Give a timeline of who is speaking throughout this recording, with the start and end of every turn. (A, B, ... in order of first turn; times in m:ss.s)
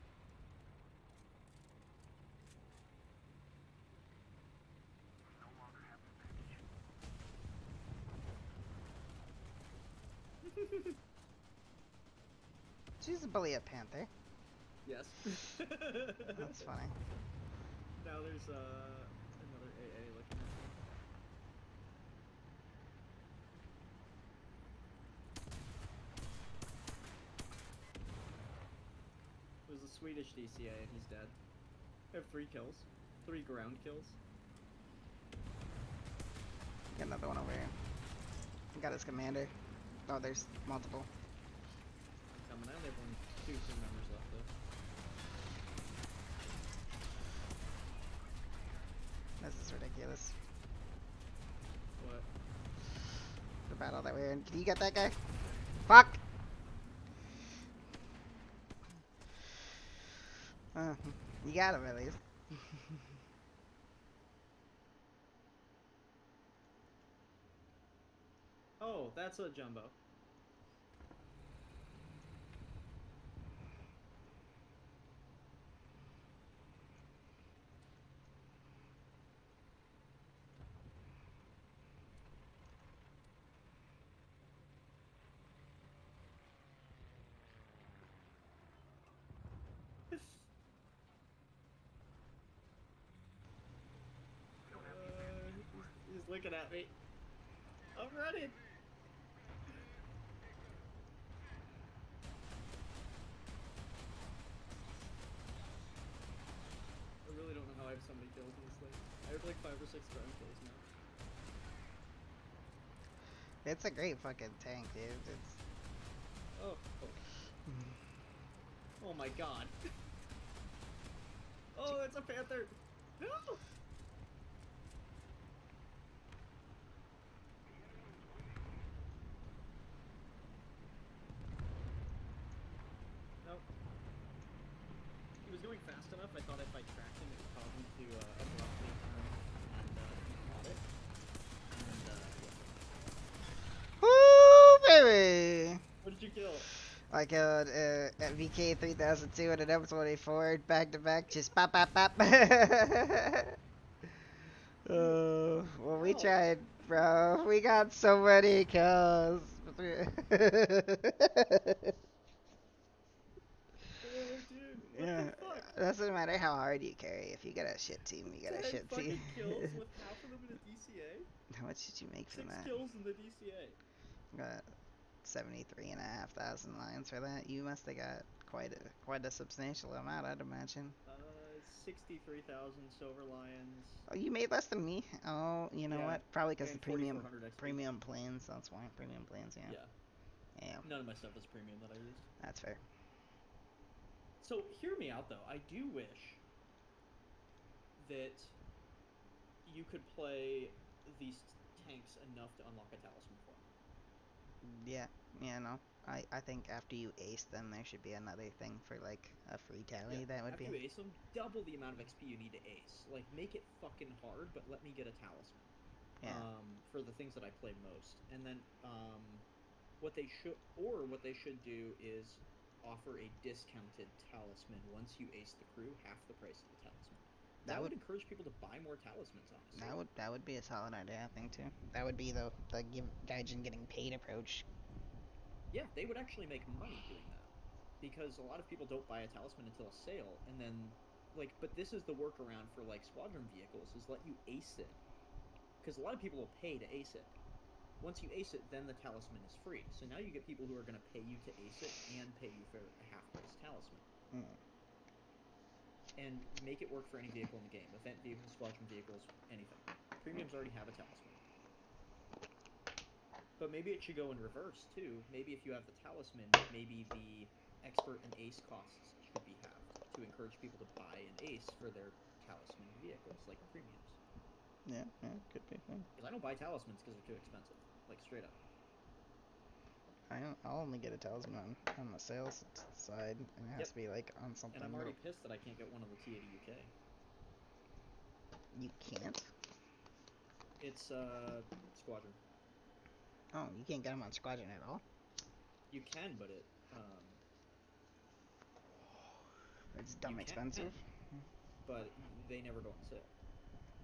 0:10.4-0:11.0 A
0:13.0-0:14.1 B
0:14.8-0:16.7 A
0:16.2-0:17.0 B
0:18.0-0:20.8 A
0:29.6-0:31.4 A
0:32.1-0:34.2 A
0:36.9-0:37.7 B
0:38.7-0:39.5 B
0:40.1-0:41.1 B
0:42.3-0:44.5 A
0:49.4-0:50.3 B
0:52.0-0:52.3 A
0:53.7-0:55.2 B
0:55.9-0:56.2 B
1:00.7-1:03.0 B
1:08.8-1:10.0 A
1:30.1-1:30.4 A
1:34.7-1:36.9 A
1:37.9-1:38.6 A
1:47.2-1:50.9 A
1:53.6-1:55.6 B
1:56.6-1:57.2 A
1:59.0-1:59.7 A
2:01.7-2:03.6 A
2:15.4-2:20.8 A
2:21.7-2:22.8 A
2:24.0-2:25.8 B
2:26.0-2:26.7 A
2:27.1-2:33.6 B
2:34.8-2:41.9 B
2:36.0-2:36.4 A
2:44.0-2:45.8 A
2:44.9-2:49.7 B
2:48.4-2:51.3 A
2:51.5-2:52.7 B
2:52.3-2:53.8 A
2:54.3-2:54.7 B
2:55.2-3:01.0 B
3:01.0-3:04.1 A
3:04.1-3:09.8 B
3:05.9-3:07.8 A
3:09.6-3:09.9 A
3:10.6-3:10.8 B
3:10.8-3:12.3 A
3:12.4-3:12.8 B
3:14.4-3:16.4 A
3:18.0-3:18.6 A
3:19.6-3:23.7 A
3:24.6-3:30.8 B
3:30.1-3:35.7 A
3:36.2-3:36.5 B
3:36.2-3:39.4 A
3:40.0-3:50.0 A
3:47.6-3:47.9 B
3:49.7-3:54.6 B
3:55.7-4:05.0 A
4:05.8-4:07.3 A
4:08.0-4:14.1 A
4:14.3-4:14.6 B
4:16.2-4:21.4 A
4:23.6-4:34.2 A
4:34.8-4:36.1 B
4:36.2-4:38.6 A
4:40.3-4:45.2 B
4:44.7-4:46.9 A
4:48.7-4:49.5 B
4:50.8-4:52.4 A
4:53.5-4:55.0 B
4:55.9-4:57.4 A
4:59.9-5:01.0 B
5:00.2-5:00.9 A
5:01.8-5:03.3 A